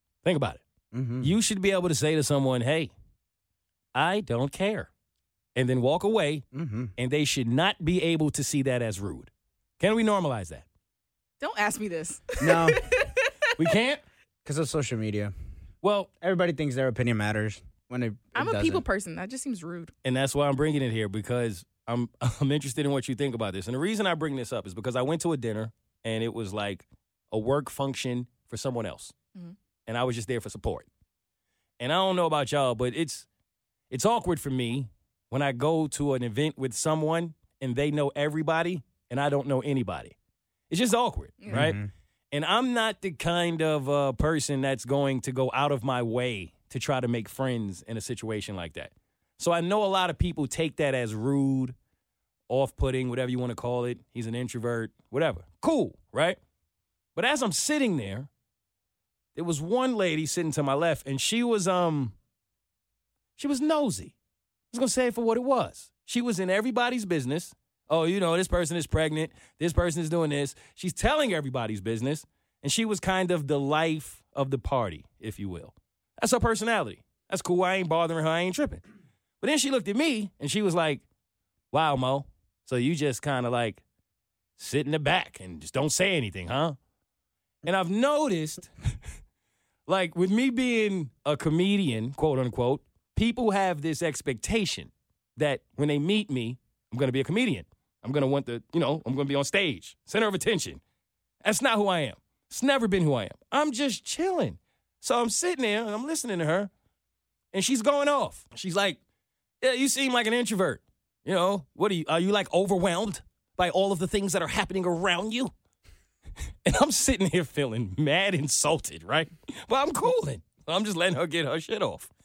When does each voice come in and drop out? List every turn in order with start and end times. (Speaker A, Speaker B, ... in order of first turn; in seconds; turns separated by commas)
Speaker A: 0.2-0.6, Speaker B: 0.9-1.3, Speaker A: 1.2-2.9, Speaker A: 3.9-4.9, Speaker A: 5.5-6.4, Speaker B: 6.5-6.9, Speaker A: 7.0-10.6, Speaker C: 11.4-13.5, Speaker B: 12.4-12.8, Speaker A: 13.6-14.0, Speaker B: 14.4-15.3, Speaker A: 15.8-16.1, Speaker B: 16.2-18.8, Speaker C: 18.3-19.9, Speaker A: 20.0-29.1, Speaker A: 29.9-30.9, Speaker A: 31.8-33.3, Speaker A: 33.9-40.1, Speaker A: 40.7-41.8, Speaker C: 41.4-41.7, Speaker B: 41.5-41.9, Speaker A: 42.3-51.7, Speaker A: 52.5-56.4, Speaker A: 57.1-58.3, Speaker A: 59.3-62.1, Speaker A: 63.4-64.1, Speaker A: 64.7-78.8, Speaker A: 79.4-81.0, Speaker A: 81.7-83.8, Speaker A: 84.6-86.8, Speaker A: 87.6-88.7, Speaker A: 89.9-100.8, Speaker A: 101.4-106.7, Speaker A: 107.5-109.0, Speaker A: 109.6-115.5, Speaker A: 116.6-122.1